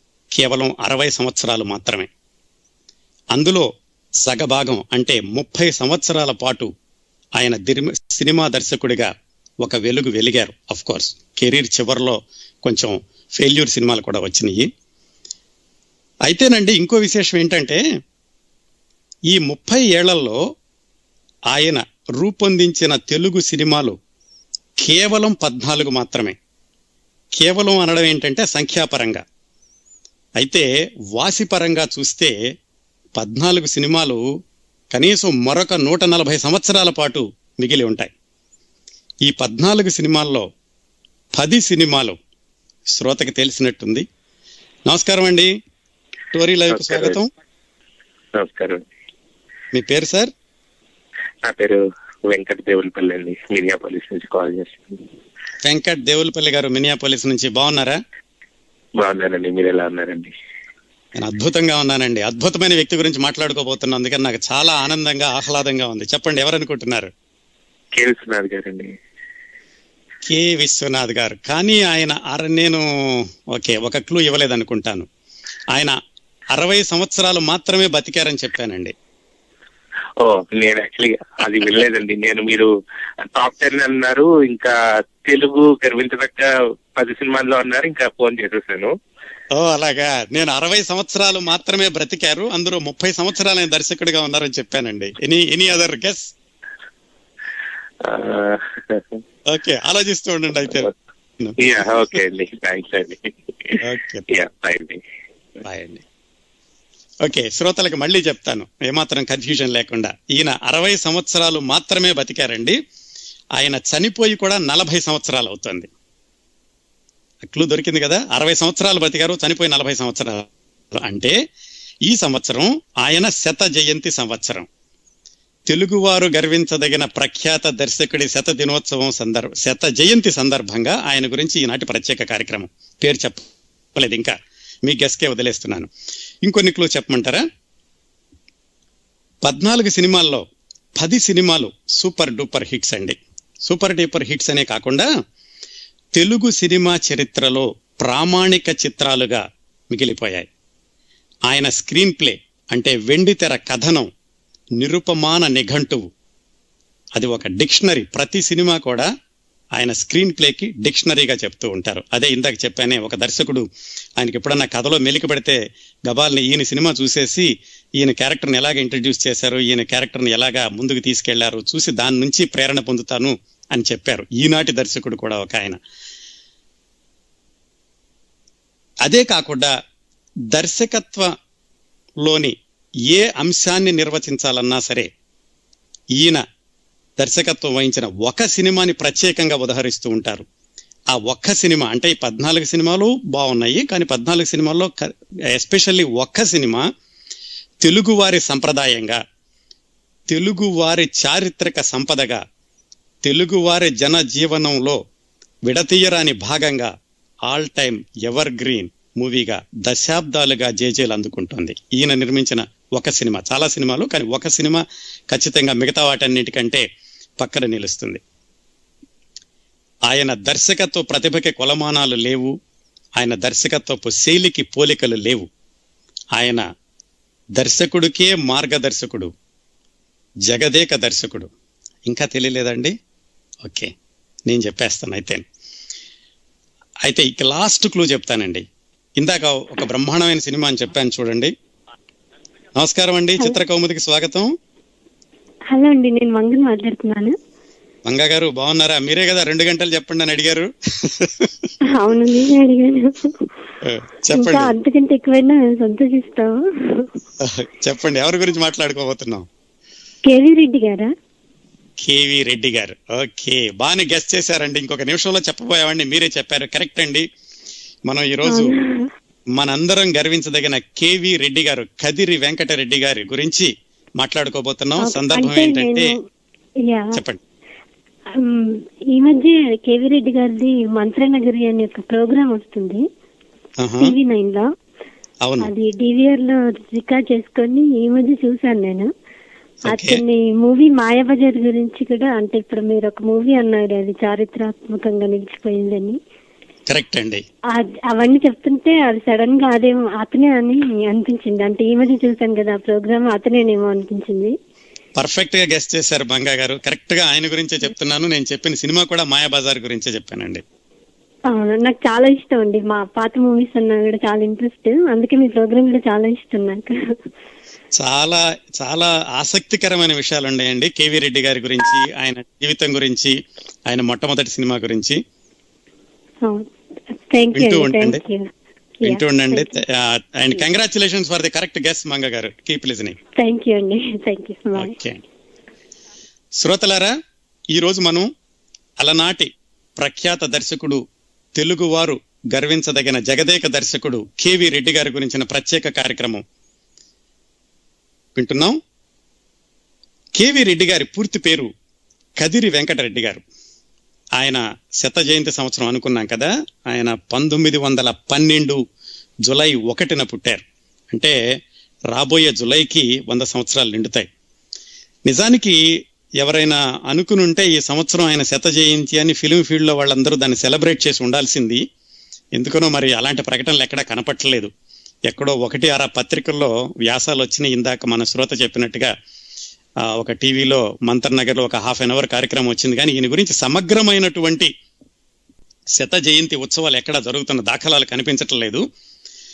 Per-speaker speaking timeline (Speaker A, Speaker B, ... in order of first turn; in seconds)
Speaker A: 0.3-2.1, 3.3-3.7, 4.2-6.7, 7.4-9.1, 9.6-14.7, 16.2-17.8, 19.3-20.4, 21.5-24.0, 24.8-26.4, 27.4-29.2, 30.4-32.3, 33.2-34.2, 34.9-38.1, 39.2-40.5, 41.4-42.2, 42.9-44.0, 44.9-45.5, 46.3-47.3, 49.7-50.3, 55.6-58.0, 61.1-67.1, 70.2-72.8, 73.5-75.1, 75.7-76.0, 76.5-78.9, 89.5-96.3, 99.5-100.9, 103.8-104.2, 105.6-106.0, 107.2-112.8, 113.6-115.9, 117.4-121.3, 122.1-124.7, 125.7-133.4, 133.9-135.9, 136.4-137.4, 139.4-140.4, 141.0-145.1, 146.2-150.5, 151.5-154.1, 154.8-156.1, 157.2-159.1, 159.8-163.6, 164.2-167.5, 168.0-175.8, 179.0-179.7, 180.5-181.3, 182.2-182.5, 183.1-185.1, 186.2-186.4, 187.2-190.4, 191.1-196.8, 197.8-199.2, 200.3-202.4, 203.2-205.0, 205.7-206.9, 207.5-216.8, 217.4-218.2, 220.1-222.5, 223.2-225.5, 226.3-226.6, 227.6-229.3, 230.5-231.5, 232.1-232.9, 233.6-233.9, 234.5-235.4, 237.0-238.6, 239.2-241.5, 242.8-244.5, 248.1-251.5, 253.8-254.7, 257.4-259.4, 262.0-267.2, 268.1-268.7, 269.6-276.1, 277.1-277.4, 283.8-284.1, 285.4-285.7, 289.9-290.2, 296.9-297.4, 305.2-310.6, 318.0-323.4, 323.9-325.2, 327.5-328.2, 329.0-333.2, 334.8-335.2, 336.6-337.1, 337.7-338.3, 339.0-341.0, 341.6-346.4, 348.4-348.8, 350.4-351.7, 352.4-353.4, 354.4-358.8, 359.4-361.4, 362.1-364.3, 365.3-365.8, 366.4-371.8, 372.6-374.7, 375.3-379.1, 380.1-384.7, 386.0-388.8
Speaker B: 46.7-47.2, 48.4-48.8, 51.5-55.0, 59.0-60.3, 67.9-68.9, 80.2-82.7, 83.2-88.9, 98.0-99.2, 101.6-105.0
Speaker C: 245.7-247.3, 251.9-253.4, 254.3-257.1, 260.3-261.1, 268.4-269.1, 275.0-276.1, 276.8-277.2, 278.4-283.0, 284.0-284.7, 285.6-289.1, 289.9-296.2, 297.7-304.5, 311.5-316.9, 326.4-328.5, 329.0-329.7, 333.4-335.0